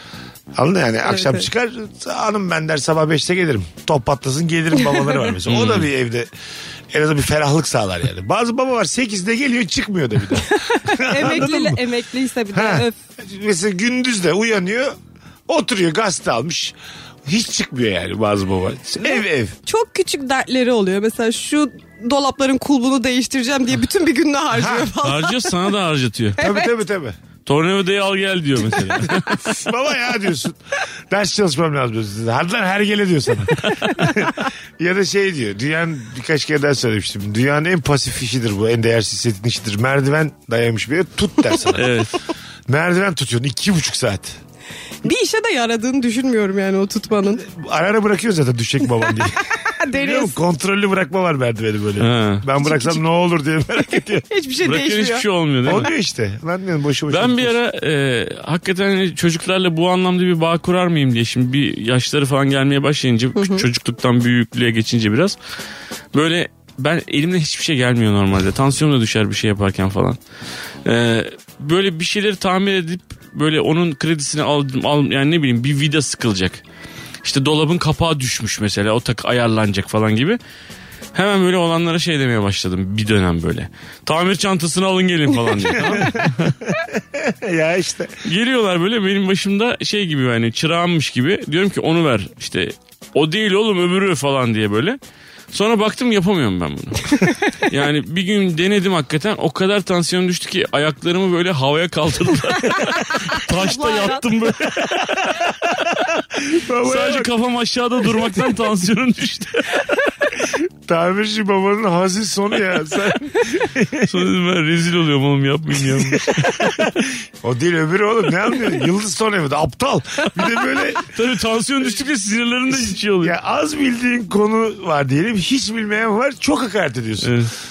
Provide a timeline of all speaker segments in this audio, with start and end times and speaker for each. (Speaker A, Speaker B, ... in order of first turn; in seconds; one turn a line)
Speaker A: 0.5-6.3
Speaker B: 1.1-1.4
Speaker C: 5.5-5.9
Speaker A: 6.9-11.8
Speaker B: 10.5-12.9
Speaker A: 12.5-14.9
Speaker A: 15.5-16.7
Speaker A: 17.2-19.6
Speaker B: 19.0-25.4
Speaker A: 24.5-24.9
Speaker C: 25.0-26.4
Speaker B: 26.4-26.7
Speaker A: 26.4-27.2
Speaker C: 27.4-29.3
Speaker A: 28.7-30.6
Speaker A: 31.1-42.0
Speaker C: 41.7-42.1
Speaker A: 42.7-44.4
Speaker B: 45.0-47.4
Speaker A: 47.4-54.2
Speaker B: 49.5-50.4
Speaker C: 52.0-52.5
Speaker B: 52.6-53.0
Speaker B: 54.3-55.3
Speaker C: 54.6-55.9
Speaker A: 55.6-57.5
Speaker C: 57.1-65.4
Speaker B: 63.4-63.6
Speaker C: 66.1-70.2
Speaker C: 70.8-76.6
Speaker C: 77.2-80.4
Speaker C: 81.1-86.5
Speaker A: 85.8-88.1
Speaker C: 88.2-95.0
Speaker C: 95.5-105.5
Speaker B: 103.3-104.2
Speaker A: 105.1-107.3
Speaker C: 106.8-110.0
Speaker A: 110.4-114.2
Speaker C: 114.0-116.8
Speaker A: 115.9-121.1
Speaker C: 121.0-123.3
Speaker A: 122.7-127.3
Speaker C: 127.2-127.5